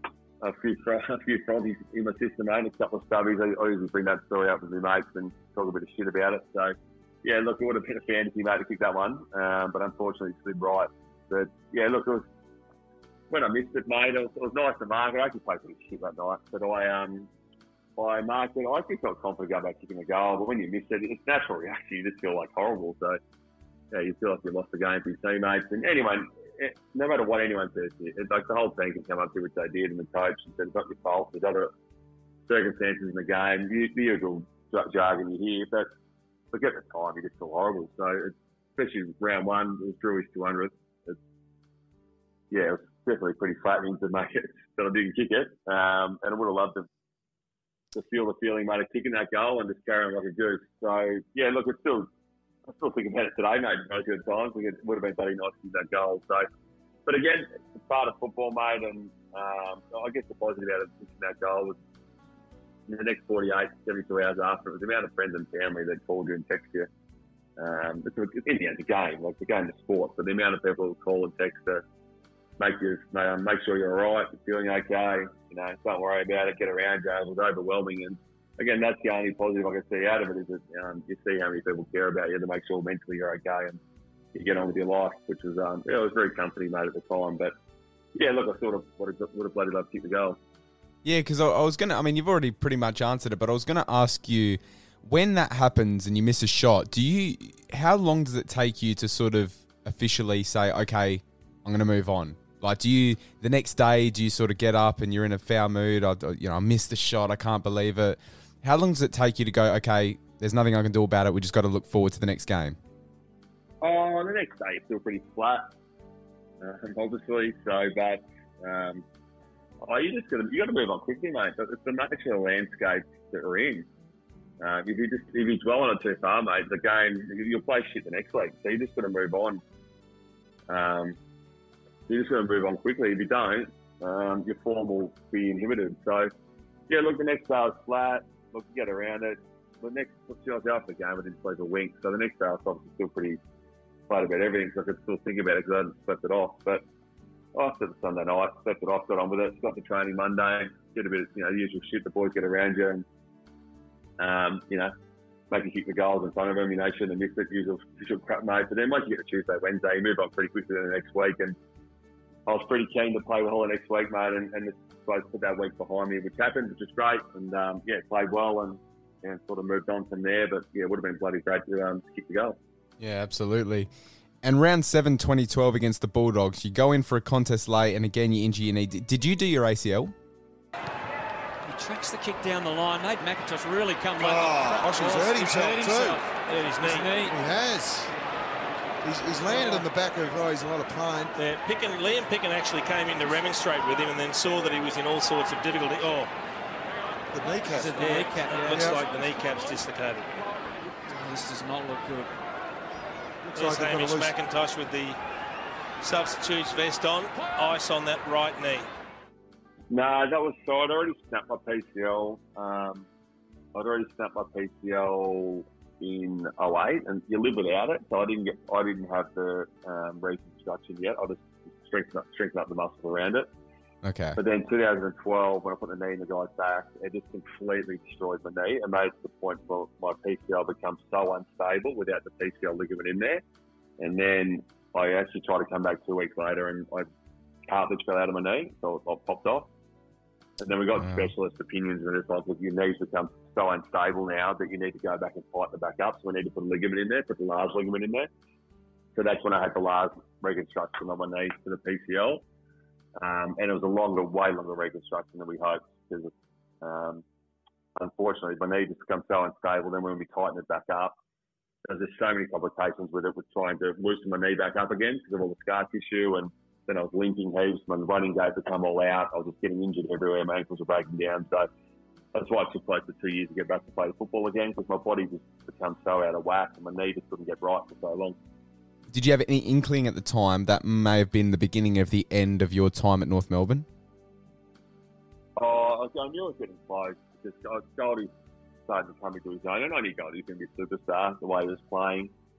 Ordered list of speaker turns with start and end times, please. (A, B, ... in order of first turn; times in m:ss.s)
0:00.4-0:12.2 A
0:13.3-0:17.3 A
0:18.0-0:23.2 A
0:23.9-0:31.7 A
0:32.5-0:35.9 A
0:36.5-0:41.2 A
0:42.5-0:46.8 A
0:47.9-0:52.1 A
0:52.6-0:56.5 A
0:57.0-1:01.8 A
1:02.9-1:06.9 A
1:07.6-1:11.8 A
1:12.6-1:23.8 A
1:24.3-1:27.5 A
1:28.1-1:30.4 A
1:31.0-1:52.8 B
1:53.8-1:55.7 A
1:56.6-1:59.0 A
1:59.8-2:03.8 A
2:04.6-2:09.6 A
2:10.7-2:11.2 A
2:12.1-2:16.3 A
2:16.9-2:23.4 A
2:24.1-2:26.8 A
2:27.5-2:33.0 A
2:34.2-2:34.9 A
2:35.5-2:41.5 A
2:42.5-2:52.6 A
2:53.0-2:53.9 B
2:54.4-3:00.1 B
3:01.6-3:07.3 C
3:04.2-3:06.2 D
3:06.6-3:07.1 E
3:07.3-3:08.0 D
3:09.0-3:11.3 D
3:09.4-3:09.8 C
3:11.4-3:16.3 E
3:17.3-3:18.0 D
3:17.7-3:19.0 C
3:18.0-3:20.3 E
3:21.1-3:22.3 C
3:23.5-3:24.3 D
3:23.5-3:25.2 E
3:26.0-3:28.9 E
3:29.9-3:33.0 A
3:33.7-3:43.5 A
3:44.0-3:44.4 B
3:44.4-3:53.4 A
3:54.0-3:57.1 A
3:57.7-3:59.7 A
4:00.6-4:08.3 A
4:01.0-4:01.3 B
4:09.1-4:12.4 A
4:13.2-4:17.2 A
4:18.0-4:21.1 A
4:21.8-4:31.7 A
4:32.3-4:38.4 A
4:39.1-4:43.8 B
4:45.6-4:48.3 A
4:48.9-4:52.3 A